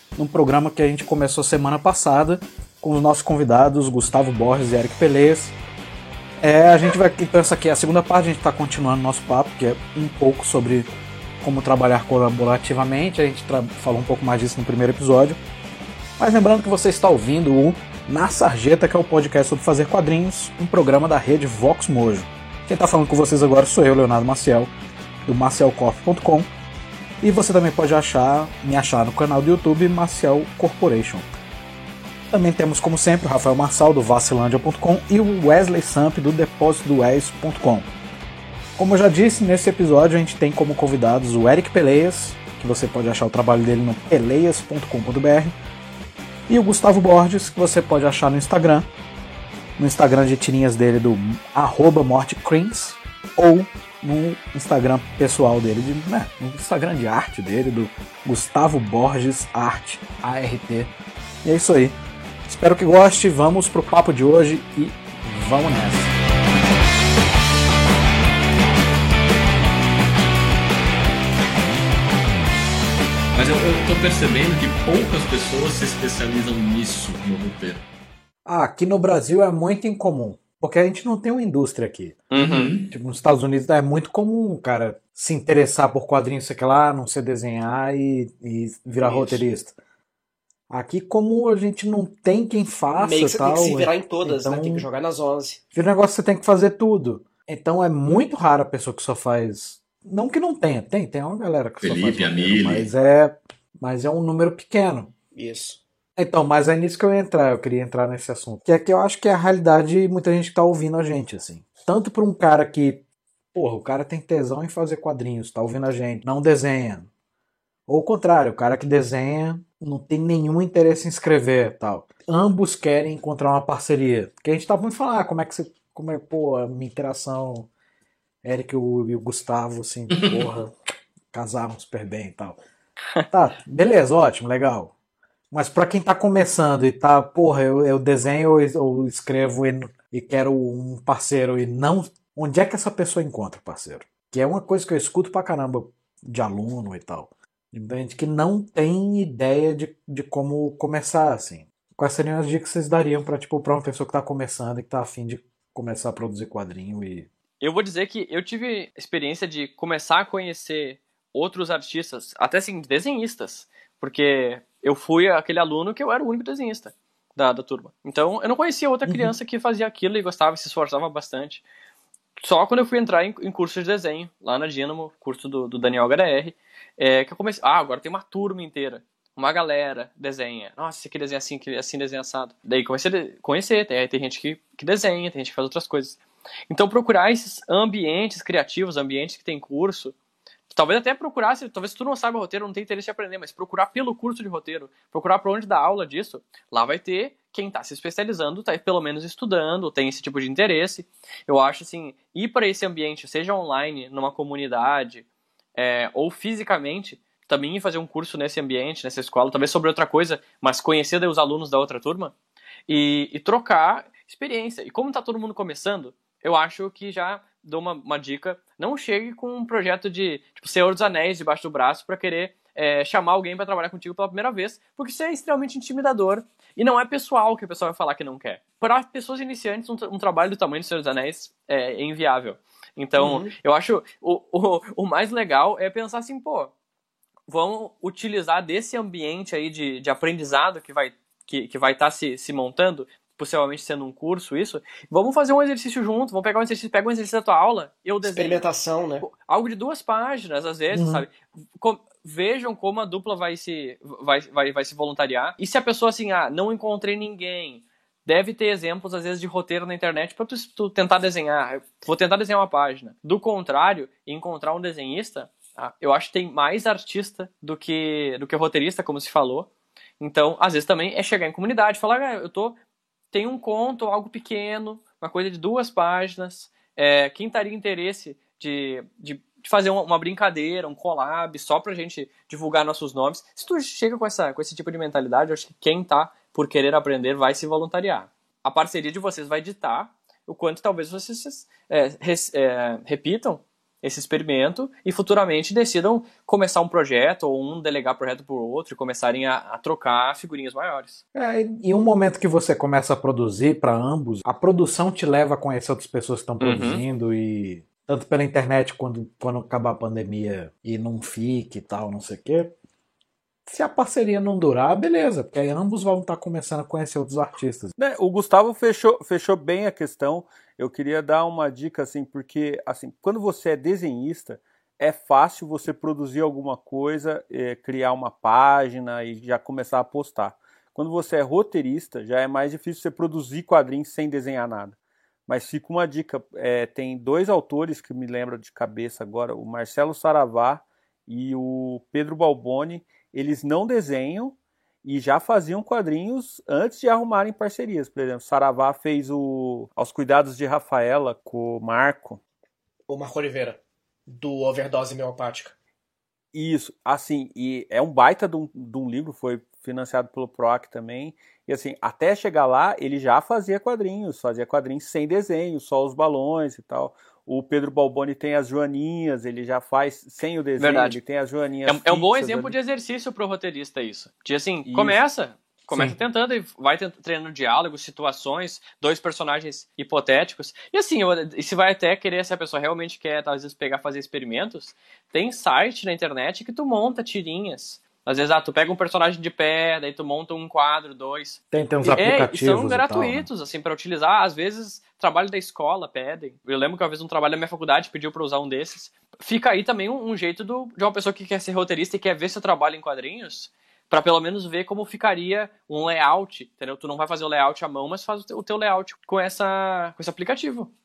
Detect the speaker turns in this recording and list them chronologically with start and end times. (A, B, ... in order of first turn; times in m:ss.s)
0:00.2-0:05.5 A
0:06.4-0:10.9 A
0:11.4-0:15.4 A
0:16.2-0:24.7 A
0:25.2-0:26.5 A
0:27.2-0:31.3 A
0:32.3-0:37.9 A
0:38.8-0:45.5 A
0:46.5-0:48.9 A
0:49.8-1:00.9 A
1:01.4-1:06.1 A
1:13.3-1:17.8 B
1:18.5-1:22.2 A
1:22.3-1:22.7 C
1:22.3-1:22.9 B
1:22.9-1:29.8 A
1:29.0-1:29.4 D
1:30.7-1:34.9 A
1:33.0-1:35.6 D
1:35.7-1:45.1 A
1:41.8-1:42.9 B
1:45.4-1:45.8 D
1:46.2-1:53.0 A
1:53.5-1:57.1 A
1:57.9-2:07.7 A
2:08.4-2:10.7 A
2:11.3-2:12.6 A
2:13.3-2:14.9 A
2:15.5-2:37.3 A
2:37.6-2:51.6 C
2:49.1-2:49.3 A
2:52.4-3:06.2 C
3:06.7-3:10.2 C
3:10.7-3:25.2 C
3:25.8-3:32.3 C
3:32.9-3:56.7 C
3:53.2-3:53.5 D
3:57.5-4:08.6 C
4:08.3-4:09.3 D
4:09.2-4:29.7 C
4:10.9-4:11.2 A
4:30.2-4:32.8 C
4:33.3-5:01.2 C
5:01.3-5:12.7 A
5:06.6-5:07.0 C
5:13.7-5:17.9 A
5:18.0-5:52.4 E
5:53.1-5:55.7 D
5:56.5-6:12.8 E
6:10.8-6:11.2 C
6:11.8-6:50.9 C
6:14.8-6:15.2 E
6:15.9-6:16.2 A
6:31.7-6:33.5 A